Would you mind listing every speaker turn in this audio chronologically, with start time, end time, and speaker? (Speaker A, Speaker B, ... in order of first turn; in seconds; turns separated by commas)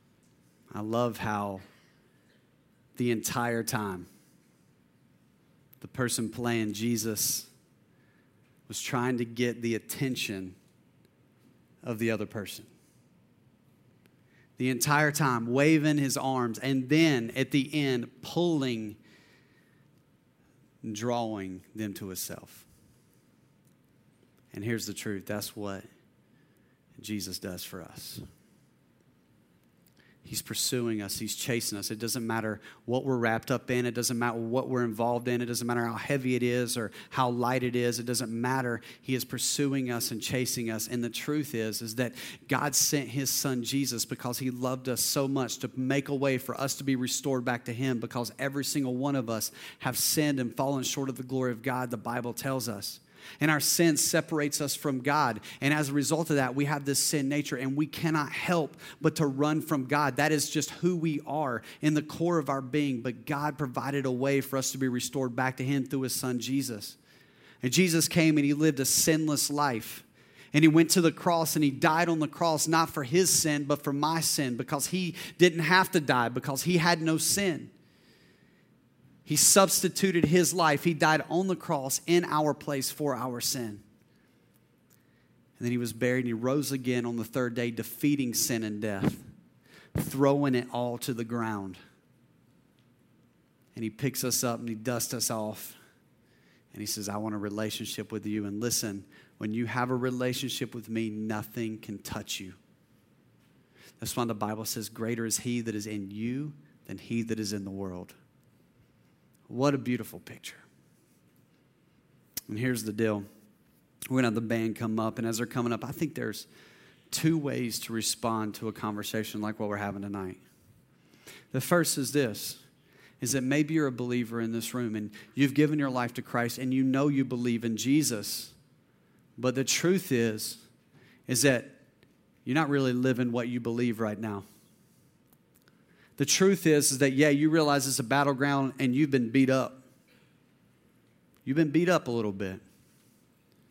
Speaker A: 0.7-1.6, Speaker A: 3.0-4.1, Speaker A: 5.8-7.5, Speaker A: 8.7-10.6, Speaker A: 11.8-12.7, Speaker A: 14.6-19.0, Speaker A: 20.8-22.7, Speaker A: 24.5-25.9, Speaker A: 27.0-28.2, Speaker A: 30.2-67.0, Speaker A: 67.6-77.7, Speaker A: 79.2-83.8, Speaker A: 85.6-89.2, Speaker A: 90.0-91.8, Speaker A: 93.8-95.8, Speaker A: 96.7-102.6, Speaker A: 104.0-108.2, Speaker A: 109.5-110.6, Speaker A: 112.5-113.3, Speaker A: 114.1-116.5, Speaker A: 117.1-120.4, Speaker A: 121.5-122.6, Speaker A: 123.2-128.5, Speaker A: 129.4-130.6, Speaker A: 131.3-131.8, Speaker A: 132.4-134.5, Speaker A: 136.2-139.8, Speaker A: 141.4-142.6